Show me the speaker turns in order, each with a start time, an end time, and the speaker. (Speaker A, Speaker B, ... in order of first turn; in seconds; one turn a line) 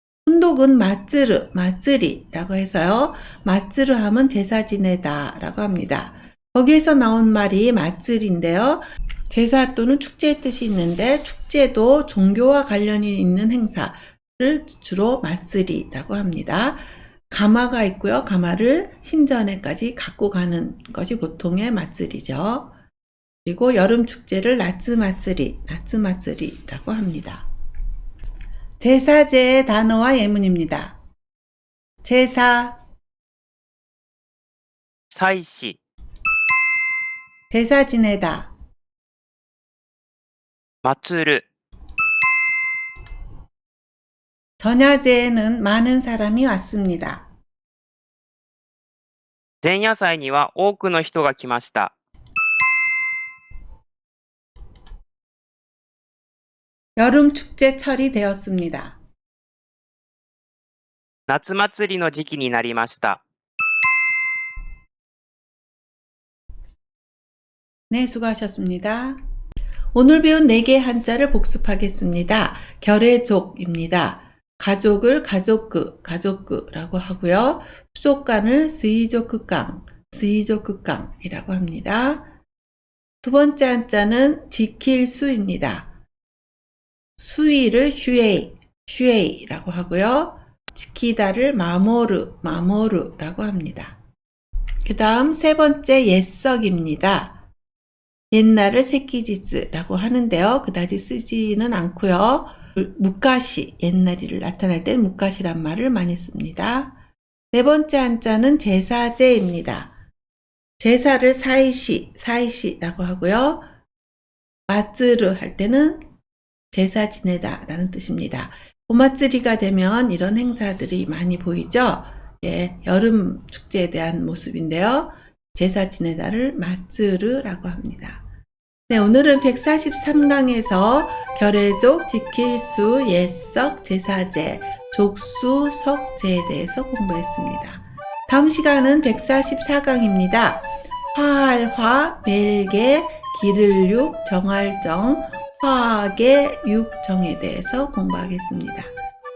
Speaker A: 0.2-22.7
Speaker A: 23.4-27.4
Speaker A: 28.8-31.0
Speaker A: 32.0-32.8
Speaker B: 35.1-35.8
Speaker A: 37.5-38.5
Speaker B: 40.8-41.4
Speaker A: 44.6-47.3
Speaker B: 49.6-51.9
Speaker A: 57.0-59.0
Speaker B: 61.3-63.2
Speaker A: 67.9-69.2
Speaker A: 69.9-82.2
Speaker A: 83.2-85.9
Speaker A: 87.2-94.0
Speaker A: 94.8-97.4
Speaker A: 98.3-106.9
Speaker A: 107.5-109.9
Speaker A: 110.8-113.6
Speaker A: 114.7-116.0
Speaker A: 116.7-128.2
Speaker A: 128.9-148.9